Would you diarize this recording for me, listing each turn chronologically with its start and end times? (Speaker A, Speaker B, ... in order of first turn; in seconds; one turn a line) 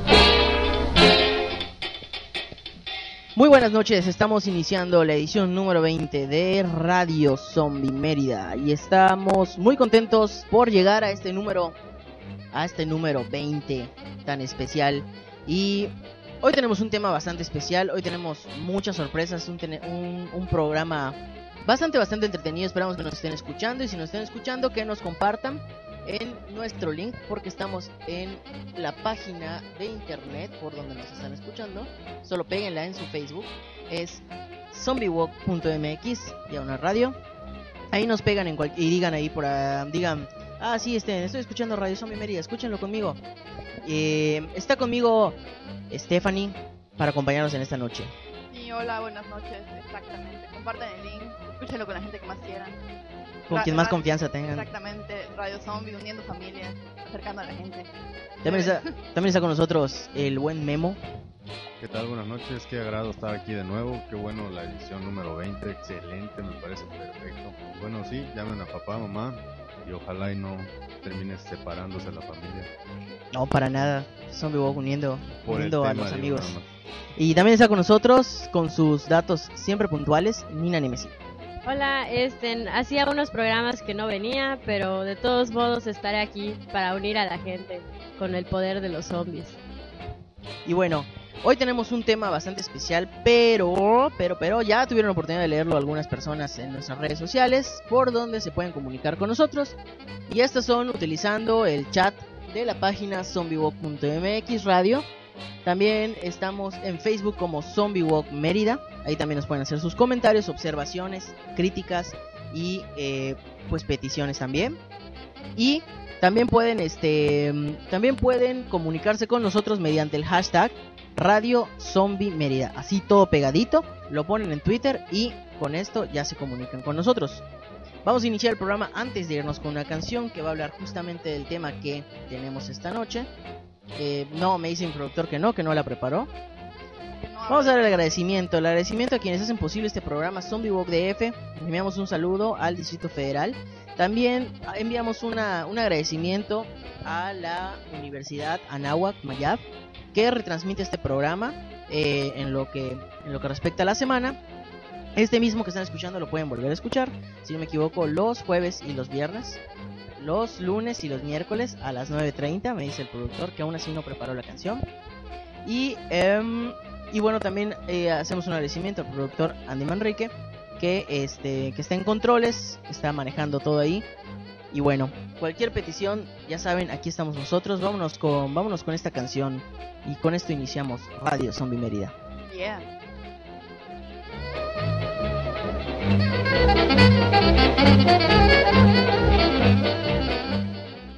Speaker A: 3.4-11.8
Speaker A: 12.5-37.2
Speaker A: 37.9-43.2
Speaker A: 43.8-45.4
Speaker A: 45.9-48.1
Speaker B: 48.5-52.8
Speaker A: 53.5-54.7
Speaker B: 53.5-57.9
Speaker B: 58.4-58.9
Speaker A: 58.4-61.0
Speaker C: 61.8-72.7
Speaker A: 73.3-76.5
Speaker C: 75.5-76.7
Speaker A: 77.2-81.2
Speaker D: 81.6-89.6
Speaker A: 90.7-105.1
Speaker A: 105.7-114.8
Speaker A: 115.6-127.5
Speaker A: 128.0-133.3
Speaker A: 133.9-136.3
Speaker B: 137.1-138.2
Speaker A: 137.5-154.4
Speaker A: 155.2-159.6
Speaker A: 160.2-164.8
Speaker A: 165.7-174.1
Speaker A: 174.7-182.2
Speaker B: 182.5-182.9